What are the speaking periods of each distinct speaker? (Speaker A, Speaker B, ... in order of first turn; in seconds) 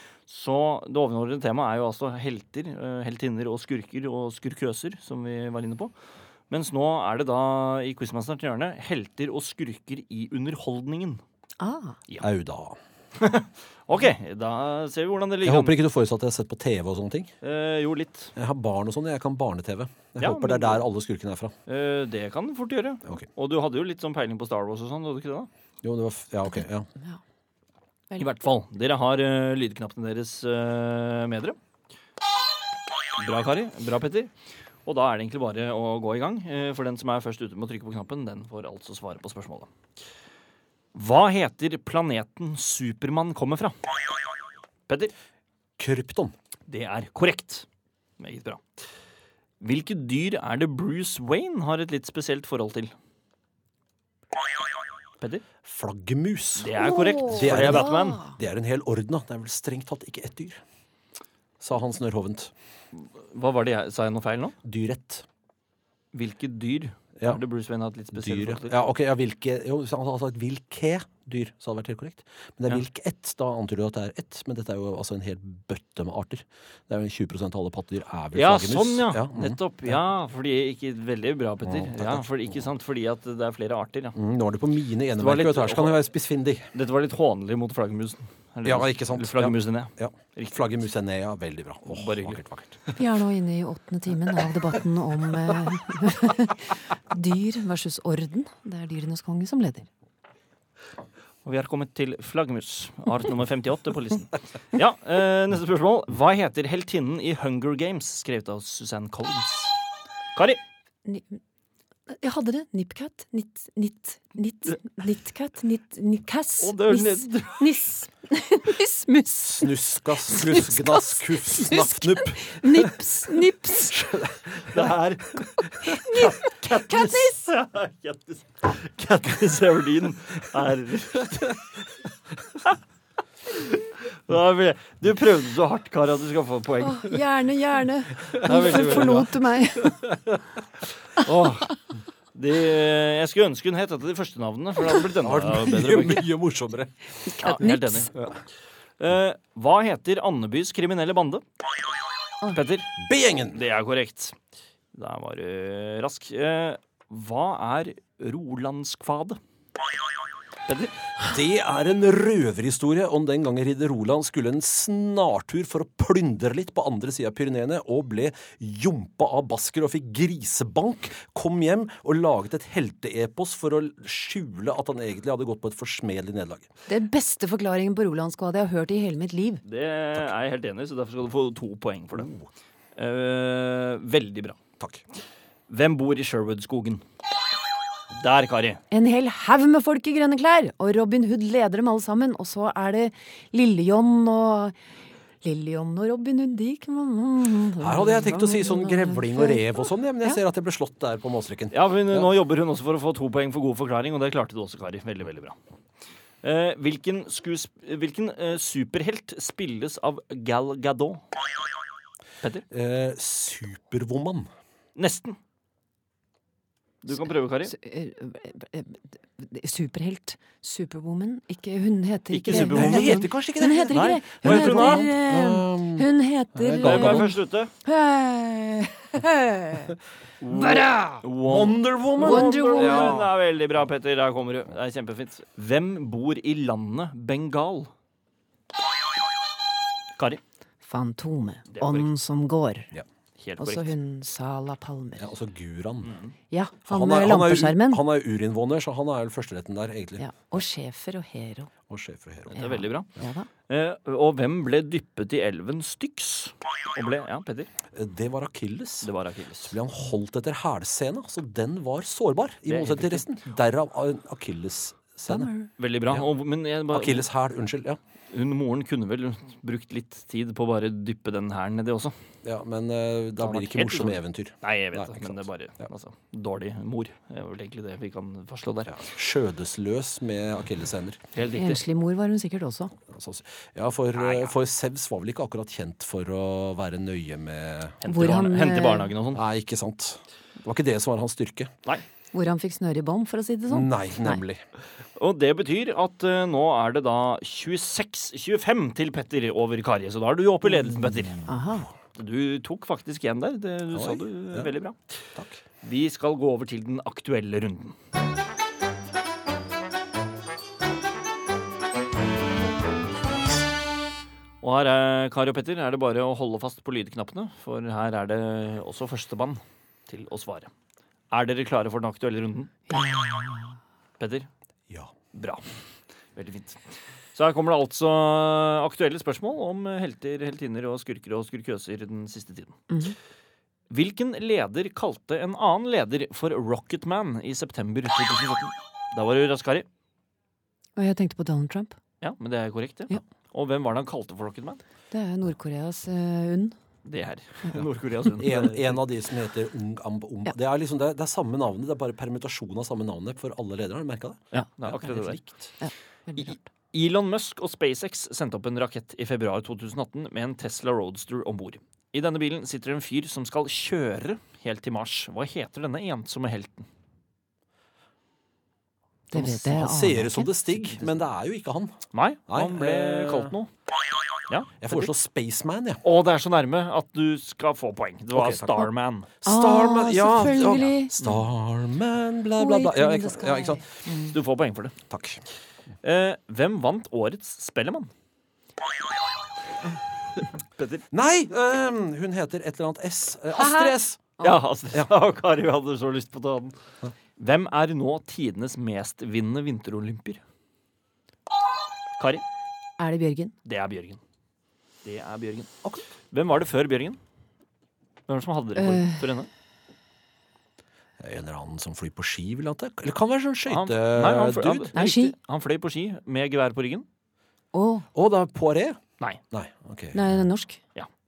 Speaker A: 0.3-5.9, 6.5-11.2, 13.2-15.8, 17.4-18.3, 20.2-20.8, 21.7-25.5, 28.2-31.6, 33.2-34.3, 34.9-39.7, 41.0-43.7, 44.9-45.1, 46.7-47.7, 48.2-48.6, 49.6-52.9, 56.6-58.2, 62.9-64.5, 66.1-68.8, 78.3-84.2, 85.2-86.0, 86.7-90.6, 91.9-93.0, 101.5-109.8, 116.6-117.7, 124.6-131.8, 133.5-137.2, 138.3-139.3, 141.2-141.8, 142.3-146.3, 147.4-148.3, 149.0-151.4, 152.5-152.9, 153.5-154.3, 154.9-159.4, 160.7-160.9, 179.7-182.3, 183.0-184.6, 185.7-187.0, 188.1-188.8, 201.7-205.6, 206.4-211.2, 215.0-215.4, 217.0-217.7, 222.3-223.3, 223.9-225.1, 226.8-227.7, 230.4-237.9, 241.7-242.1, 243.4-243.9, 246.1-246.3, 252.6-253.1, 253.7-257.7, 259.0-259.8, 262.7-263.3, 265.8-267.3, 268.3-272.1, 273.4-279.0, 281.4-281.8, 284.1-284.5, 288.0-289.4, 295.2-301.5, 302.1-305.0, 305.8-307.9, 314.6-320.7, 321.3-322.8, 324.2-324.5, 325.3-325.6, 326.4-326.8, 327.4-332.8, 333.9-339.9, 342.2-344.8, 347.1-349.0, 354.5-355.4, 356.4-366.9, 372.1-373.7, 374.5-375.1, 376.0-379.3, 384.2-384.9, 386.0-388.1, 390.8-391.0, 394.4-396.8, 397.4-400.4, 403.7-404.2, 405.0-405.7, 406.3-407.2, 408.3-409.5, 413.7-417.1
Speaker B: 11.6-12.0, 56.8-58.4, 93.0-99.9, 111.0-111.4, 112.1-124.1, 125.8-127.4, 136.8-140.0, 147.2-148.1, 176.9-179.6, 188.9-194.8, 195.4-200.4, 217.7-227.3, 227.8-230.0, 230.5-231.2, 232.2-233.2, 240.8-242.9, 243.6-245.3, 246.5-248.0, 250.2-251.7, 252.6-253.5, 265.3-265.7, 281.5-282.9, 288.1-289.1, 292.3-294.4, 301.4-301.9, 322.9-323.8, 332.9-333.2, 341.0-342.0, 345.1-346.8, 355.8-356.6, 369.3-370.5, 379.4-381.1, 382.6-384.3, 393.6-394.6, 403.0-403.5, 408.8-409.2, 414.9-415.4, 417.7-418.1, 420.1-420.8
Speaker C: 12.2-12.8, 15.4-17.3, 18.4-21.6, 25.8-26.9, 45.8-46.3, 55.6-60.6, 61.6-62.5, 64.6-65.3, 68.1-80.0, 81.6-82.6, 84.2-86.7, 88.7-92.8, 119.6-123.0, 123.9-124.8, 145.2-146.9, 153.0-153.6, 161.2-176.7, 182.2-182.5, 197.8-202.3, 212.7-214.5, 222.5-227.3, 231.4-233.3, 245.2-246.2, 246.9-250.6, 251.9-252.6, 257.9-259.1, 259.6-265.5, 266.9-268.0, 272.4-275.4, 278.9-281.2, 283.1-288.0, 289.3-291.7, 293.7-294.6, 303.9-304.7, 305.4-305.6, 348.4-355.5, 369.3-372.0, 372.5-373.6, 374.8-376.0, 378.4-378.9, 379.4-383.9, 385.1-385.4, 391.1-394.2, 411.2-414.9, 418.1-420.4